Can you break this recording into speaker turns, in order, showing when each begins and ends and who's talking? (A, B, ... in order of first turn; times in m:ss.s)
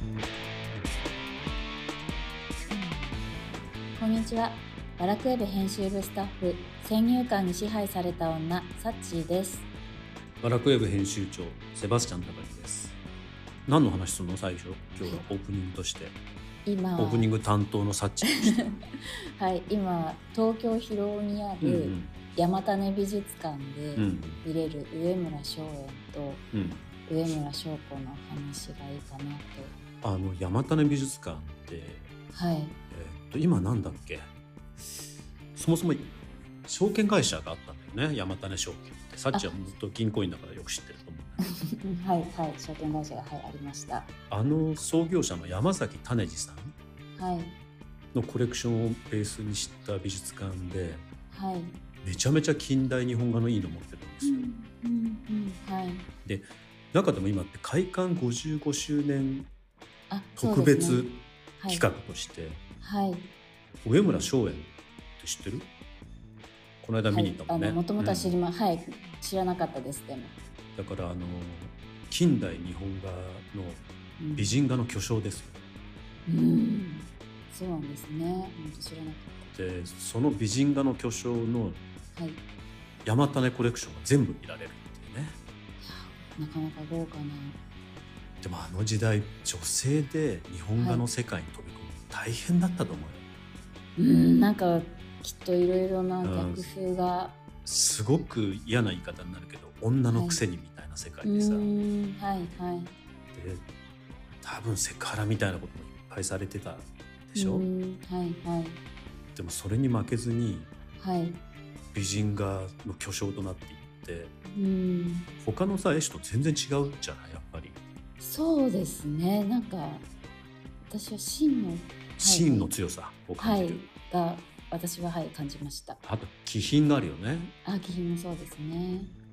0:04.0-0:09.7 A
0:10.4-0:13.0 B
0:13.7-0:16.2 B
0:16.7-0:17.3 A
0:17.0-0:18.7 B
0:18.2-0:18.8 A
0:19.4-0:26.4 A
0:21.6-0:22.1 B
0:24.0-0:24.4 B
0:26.5-0:26.9 B
0:27.1-0:29.8 A
0:30.0-0:32.1 B
0:32.3-0:32.8 A
0:32.9-0:34.2 B
0:35.6-0:36.1 B
0:36.7-0:41.4 B
0:41.6-0:44.1 A
0:44.3-0:46.8 B
0:47.2-0:47.6 A
0:48.1-0:51.0 B
0:51.3-0:51.8 A
0:52.0-0:54.5 B
0:54.2-0:56.1 A
0:56.2-0:59.5 B
1:00.1-1:01.9 A
1:00.4-1:02.6 B
1:02.8-1:03.3 A
1:03.8-1:05.7 B
1:06.8-1:08.3 B
1:07.1-1:10.4 A
1:10.8-1:13.8 B
1:14.2-1:14.6 A
1:14.4-1:15.6 B
1:16.3-1:19.5 A
1:19.5-1:21.8 B
1:22.2-1:22.4 A
1:23.0-1:25.4 B
1:25.8-1:27.6 A
1:28.4-1:33.3 B
1:30.8-1:31.1 A
1:34.0-1:37.4 A
1:36.2-1:36.6 B
1:37.6-1:41.7 B
1:40.1-1:40.4 A
1:41.2-1:43.0 A
1:43.3-1:43.6 B
1:44.4-1:47.7 B
1:47.4-1:48.8 A
1:49.4-1:50.7 B
1:51.0-1:51.4 A
1:51.9-1:54.3 B
1:54.5-1:55.3 A
1:55.4-1:57.8 B
1:58.2-2:00.1 A
2:00.9-2:02.8 A
2:02.2-2:03.8 B
2:03.4-2:06.0 A
2:06.0-2:07.5 B
2:07.6-2:09.1 A